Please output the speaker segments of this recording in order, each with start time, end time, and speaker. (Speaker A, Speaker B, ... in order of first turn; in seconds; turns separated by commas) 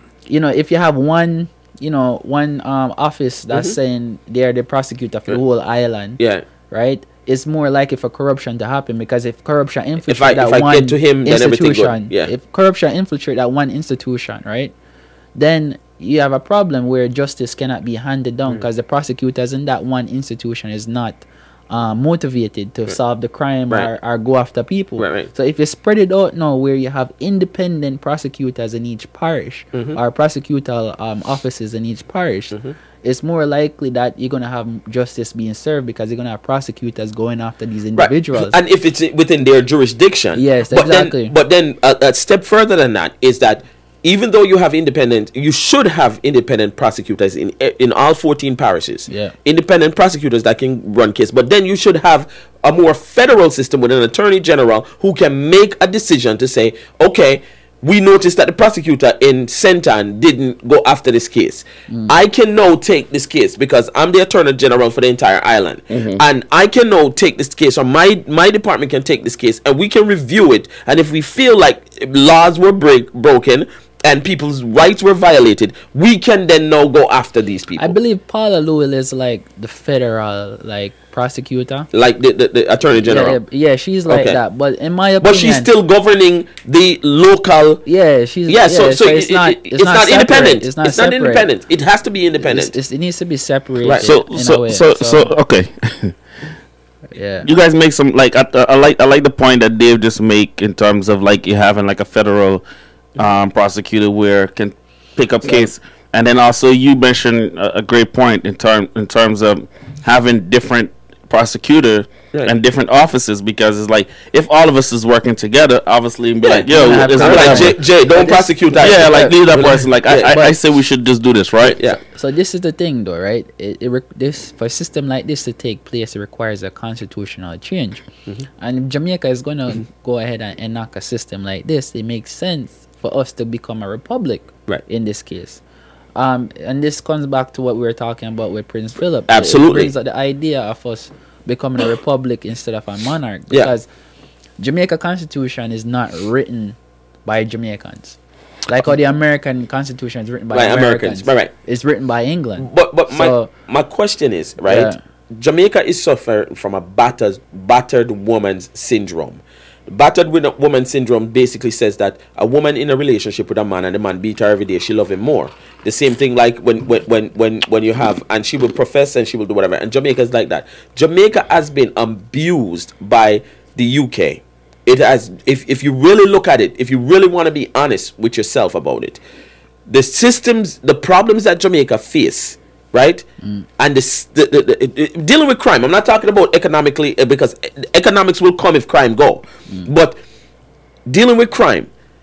Speaker A: 0.3-6.2, Speaker B: 3.5-3.8, Speaker B: 6.2-6.4, Speaker A: 6.7-14.7, Speaker B: 10.1-12.3, Speaker A: 15.3-38.6, Speaker B: 25.0-25.3, Speaker B: 29.7-30.0, Speaker B: 38.0-78.0, Speaker A: 40.3-41.4, Speaker A: 49.1-49.3, Speaker A: 61.9-62.1, Speaker C: 65.9-66.2, Speaker A: 77.8-81.9, Speaker B: 81.9-83.4, Speaker A: 83.0-85.7, Speaker B: 84.1-84.4, Speaker B: 85.2-87.8, Speaker A: 87.8-91.5, Speaker B: 88.5-92.8, Speaker A: 92.4-95.3, Speaker B: 93.8-94.1, Speaker C: 94.0-96.2, Speaker A: 97.1-97.5, Speaker C: 97.4-102.6, Speaker C: 103.2-117.9, Speaker B: 116.4-120.5, Speaker A: 116.7-120.6, Speaker C: 118.7-121.8, Speaker B: 121.6-122.0, Speaker A: 122.1-128.0, Speaker A: 128.6-135.6, Speaker A: 136.2-143.9, Speaker B: 139.3-139.9, Speaker A: 144.6-153.5, Speaker B: 150.5-151.5, Speaker B: 152.6-179.2, Speaker A: 154.7-155.0, Speaker B: 179.9-183.2, Speaker B: 183.8-190.2, Speaker B: 191.1-191.9